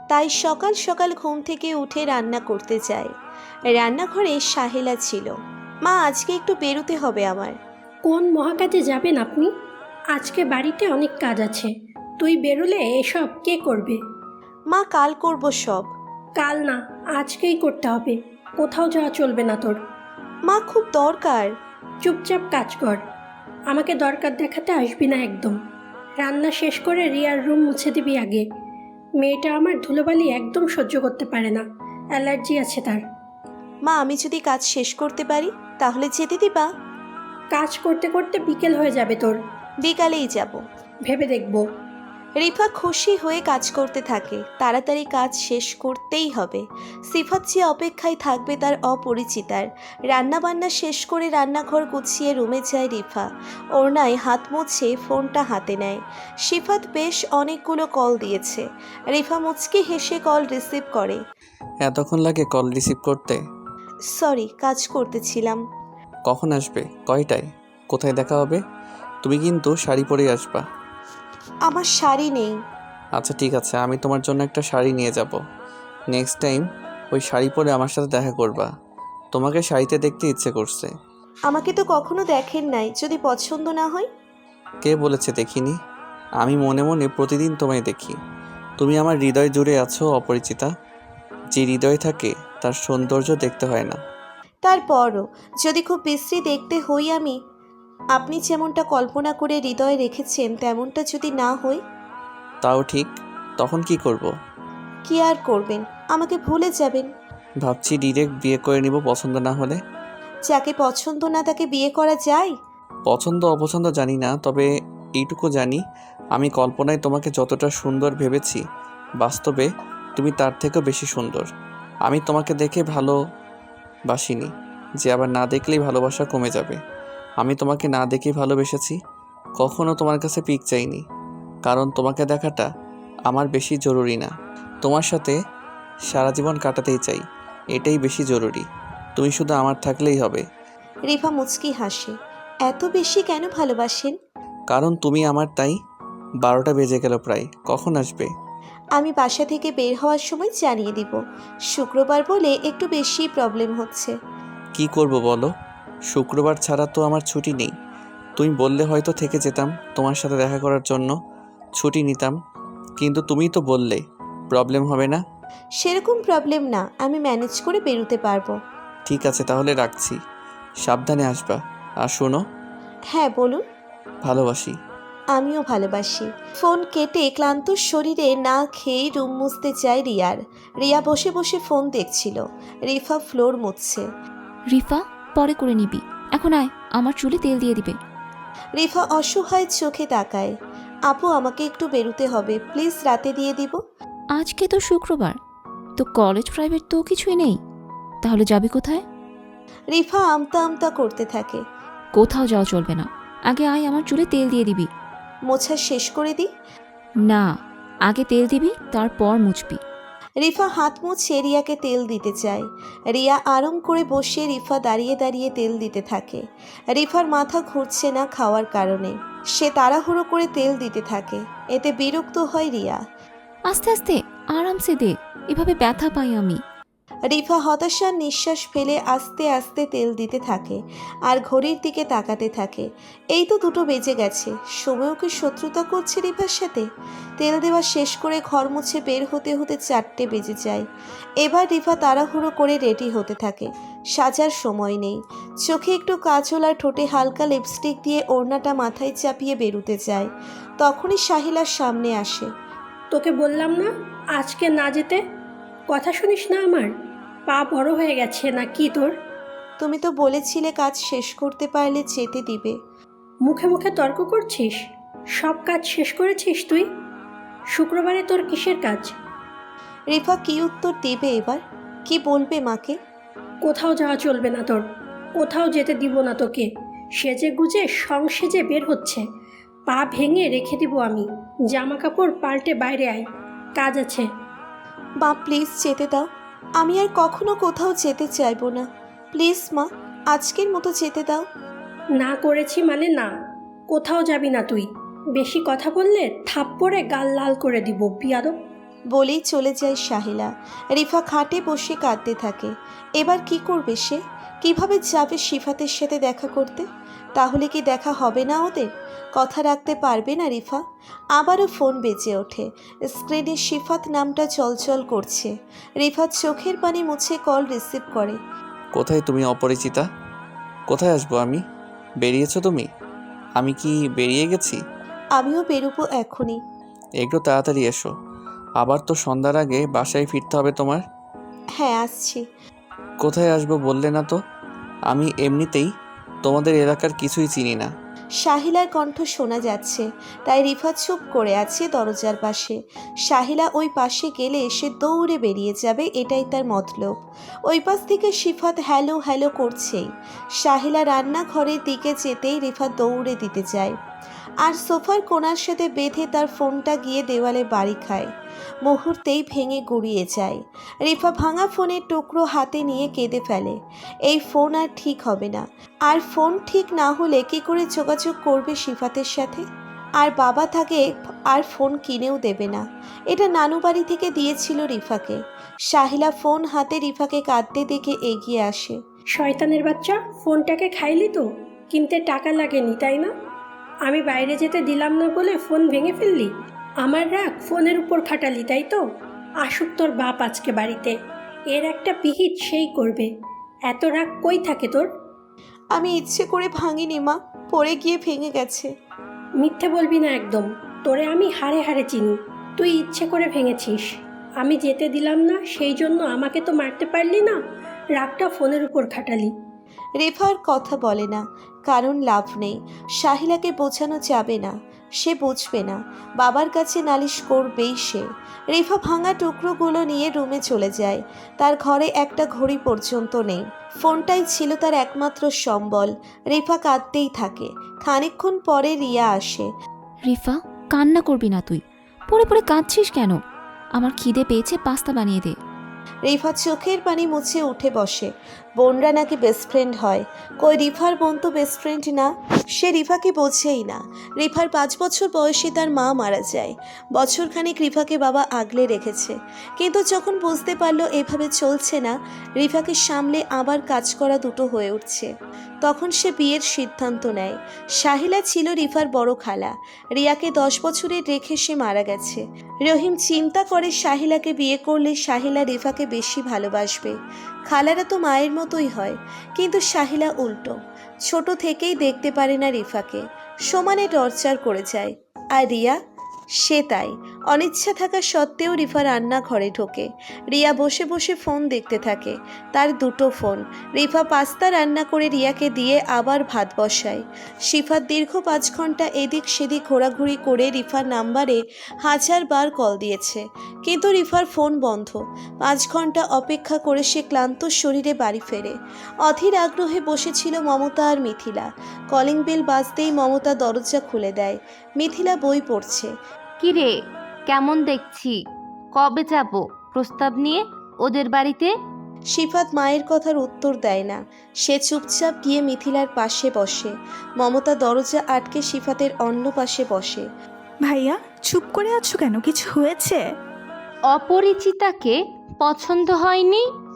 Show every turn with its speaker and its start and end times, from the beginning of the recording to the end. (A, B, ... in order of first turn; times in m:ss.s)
0:00.1-0:03.1 A
0:03.7-0:05.3 A
0:05.8-0:07.6 A
0:08.1-0:09.5 B
0:10.2-0:14.0 B
0:14.7-0:15.9 A
0:16.4-0:19.8 B
0:20.5-0:21.5 A
0:22.0-0:23.0 B
0:23.7-0:25.5 B
0:26.2-0:28.4 B
0:29.2-0:31.6 B
0:32.2-0:33.0 B
0:33.8-0:36.7 A
0:37.6-0:39.4 B
0:39.8-0:40.6 A
0:41.1-0:41.6 B
0:42.4-1:01.2 A
1:01.8-1:03.4 C
1:04.1-1:05.6 A
1:06.3-1:08.6 C
1:09.2-1:10.6 C
1:11.7-1:12.6 A
1:13.2-1:15.4 C
1:16.1-1:18.7 C
1:19.3-1:20.9 C
1:21.5-1:24.1 A
1:24.8-1:25.8 C
1:26.4-1:28.2 C
1:28.8-1:30.7 C
1:31.5-1:34.0 C
1:34.6-1:37.4 A
1:38.2-1:41.8 A
1:42.6-1:44.3 C
1:45.1-1:47.1 A
1:47.6-1:49.8 C
1:50.5-1:52.5 A
1:53.1-1:55.8 C
1:56.4-1:58.6 C
1:59.2-2:01.5 C
2:02.1-2:03.2 C
2:04.1-2:06.8 C
2:07.4-2:09.0 C
2:09.6-2:11.0 C
2:11.7-2:12.7 C
2:13.3-2:14.3 C
2:14.8-2:15.4 C
2:16.1-2:17.2 C
2:17.8-2:18.7 C
2:19.2-2:20.4 C
2:21.1-2:22.1 A
2:22.7-2:24.1 A
2:24.7-2:25.8 C
2:26.4-2:28.3 C
2:29.0-2:31.2 A
2:31.7-2:34.1 A
2:34.8-2:35.5 C
2:36.1-2:37.7 C
2:38.4-2:41.1 C
2:41.8-2:42.3 C
2:43.0-2:45.2 C
2:45.8-2:48.6 A
2:49.0-2:50.2 C
2:50.8-2:52.4 C
2:53.1-2:53.6 A
2:54.2-2:54.8 C
2:55.4-3:04.0 A
3:04.7-3:08.0 D
3:08.8-3:10.5 A
3:11.1-3:13.8 A
3:14.4-3:15.4 D
3:16.0-3:17.6 D
3:18.2-3:19.0 D
3:19.9-3:21.6 A
3:22.1-3:24.9 D
3:25.5-3:26.5 A
3:27.2-3:27.5 D
3:28.0-3:29.8 D
3:30.4-3:43.0 A
3:43.7-3:46.6 D
3:47.3-3:56.8 A
3:57.4-4:00.8 A
4:01.4-4:10.3 A
4:10.8-4:12.5 A
4:13.1-4:15.2 B
4:15.9-4:16.9 B
4:17.5-4:19.1 B
4:19.8-4:22.8 A
4:23.5-4:24.8 B
4:25.4-4:26.9 B
4:27.8-4:29.1 B
4:30.1-4:33.0 A
4:33.6-4:34.8 B
4:35.4-4:36.7 B
4:37.2-4:39.2 B
4:39.9-4:43.2 B
4:43.8-4:44.2 B
4:45.2-4:46.3 A
4:46.8-4:51.4 A
4:52.2-4:53.3 B
4:53.9-4:54.8 B
4:55.4-4:58.5 B
4:59.1-5:06.8 A
5:07.4-5:10.8 A
5:11.4-5:18.4 A
5:18.9-5:20.0 C
5:20.9-5:21.6 C
5:22.2-5:22.9 C
5:23.6-5:24.8 C
5:25.4-5:26.6 A
5:27.2-5:28.1 C
5:28.8-5:31.0 C
5:31.8-5:32.4 A
5:33.2-5:34.4 C
5:35.1-5:35.9 C
5:36.4-5:37.9 C
5:38.4-5:42.8 A
5:43.3-5:47.1 A
5:47.7-5:50.1 A
5:50.6-5:54.0 A
5:54.6-5:58.3 A
5:58.8-6:09.6 A
6:10.2-6:15.4 A
6:15.9-6:19.0 A
6:19.4-6:23.3 B
6:24.1-6:26.5 B
6:27.0-6:29.0 B
6:29.6-6:31.2 B
6:31.7-6:33.3 B
6:33.9-6:35.1 B
6:35.9-6:38.9 A
6:39.6-6:44.0 B
6:44.6-6:47.6 B
6:48.2-6:49.5 B
6:50.2-7:09.7 A
7:10.2-7:13.4 D
7:14.0-7:15.6 D
7:16.3-7:35.3 A
7:35.8-7:47.2 A
7:47.7-7:50.8 A
7:51.3-7:56.0 A
7:56.6-8:18.8 A
8:19.2-8:26.1 A
8:26.6-8:26.9 E
8:27.5-8:28.3 E
8:28.9-8:31.7 E
8:32.3-8:40.2 A
8:40.8-8:43.2 F
8:44.1-8:46.6 E